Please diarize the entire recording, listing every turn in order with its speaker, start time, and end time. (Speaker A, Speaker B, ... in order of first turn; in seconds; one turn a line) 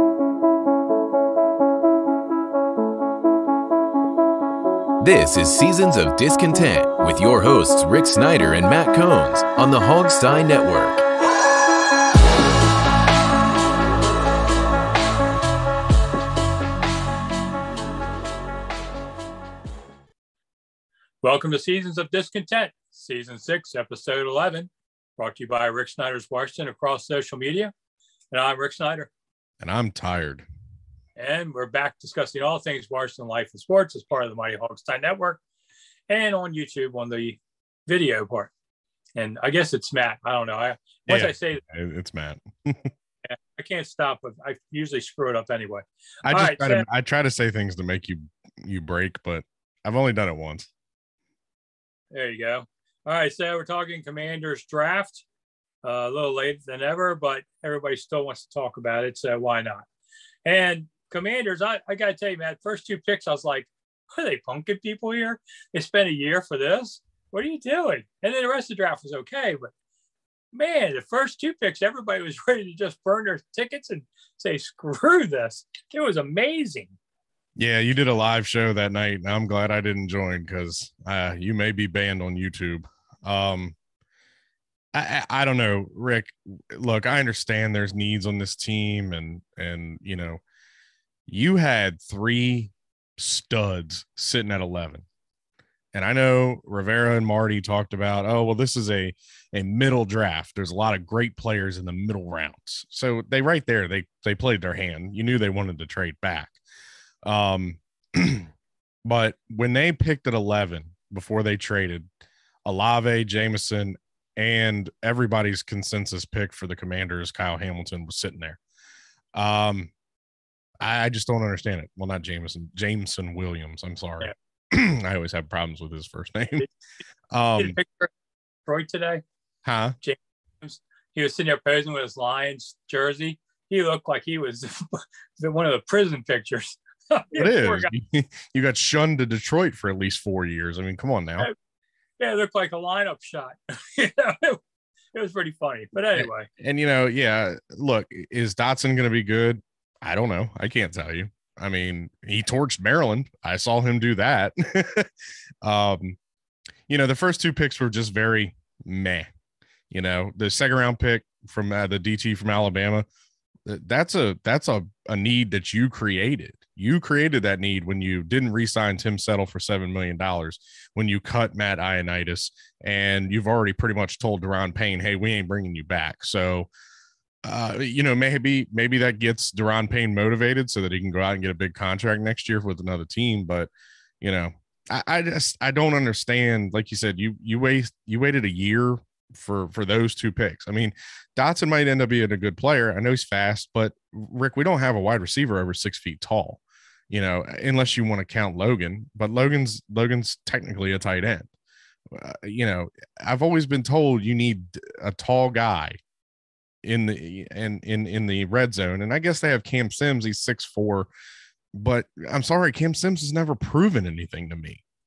Speaker A: 5.0-11.0
Speaker B: 21.2-27.7
Speaker B: 28.3-29.1
Speaker C: 29.6-30.5
Speaker B: 31.2-35.4
Speaker B: 36.1-38.5
Speaker B: 39.1-41.6
Speaker C: 41.1-42.9
Speaker B: 43.2-46.9
Speaker C: 46.2-50.7
Speaker B: 52.1-55.2
Speaker B: 55.8-59.9
Speaker B: 60.5-69.7
Speaker B: 70.5-77.0
Speaker C: 77.6-83.8
Speaker C: 84.9-90.4
Speaker C: 91.3-95.0
Speaker C: 95.9-106.6
Speaker C: 107.2-108.5
Speaker C: 109.0-112.1
Speaker C: 112.7-118.6
Speaker C: 119.3-119.9
Speaker C: 120.8-126.7
Speaker C: 127.3-127.8
Speaker B: 127.6-128.1
Speaker B: 128.7-129.2
Speaker C: 129.7-130.0
Speaker B: 130.0-137.9
Speaker C: 137.3-141.5
Speaker B: 142.2-144.6
Speaker B: 145.1-146.5
Speaker C: 146.2-155.1
Speaker C: 155.6-156.2
Speaker C: 156.9-159.3
Speaker C: 159.9-163.1
Speaker C: 163.7-176.7
Speaker C: 177.4-201.5
Speaker C: 202.1-206.0
Speaker C: 206.8-211.1
Speaker C: 211.8-214.8